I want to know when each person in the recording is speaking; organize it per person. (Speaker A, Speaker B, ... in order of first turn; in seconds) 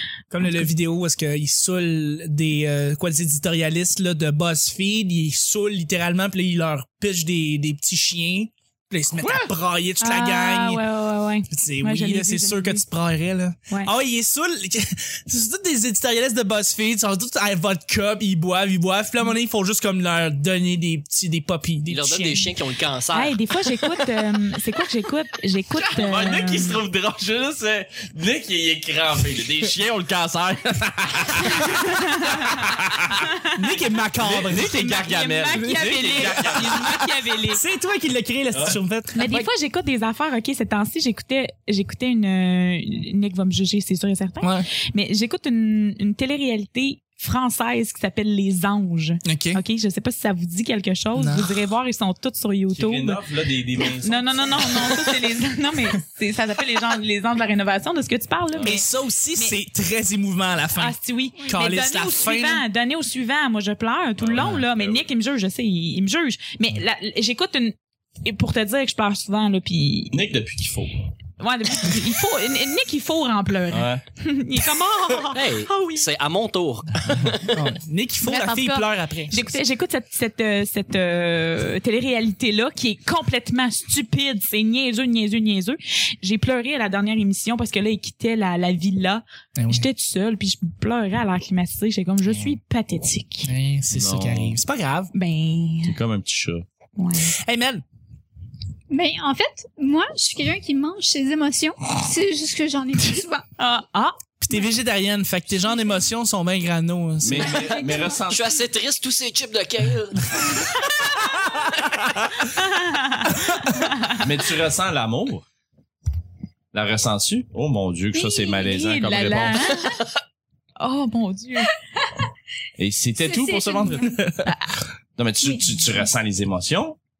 Speaker A: 0.3-10.8, 11.5-22.5, 33.5-34.9, 35.5-36.9, 37.5-39.4, 44.4-44.7, 49.2-49.6, 51.1-51.6, 58.6-62.6, 77.5-79.6, 89.6-89.9, 93.4-95.1, 97.3-97.8, 104.4-107.8
Speaker B: 0.4-0.7, 10.0-12.8, 23.1-26.8, 31.4-33.8, 34.5-37.6, 39.1-53.2, 53.8-59.6, 60.8-70.2, 71.4-76.1, 78.2-93.5, 95.1-96.0, 97.0-97.3, 103.6-104.2, 110.8-111.0, 112.6-114.2, 118.5-120.0, 120.8-121.7, 124.4-124.8
Speaker C: 9.2-9.5, 25.7-33.2, 34.2-37.0, 52.7-55.0, 58.5-58.8, 64.2-65.0, 70.1-71.1, 73.7-74.0, 93.9-94.6, 95.8-96.6, 107.2-108.6, 114.1-115.4, 116.7-119.9, 122.8-124.5, 125.2-127.0
Speaker D: 21.9-23.4, 75.3-77.6, 108.3-110.7
Speaker E: 98.9-103.5, 107.4-108.2, 118.1-118.5, 123.2-124.2, 125.4-125.8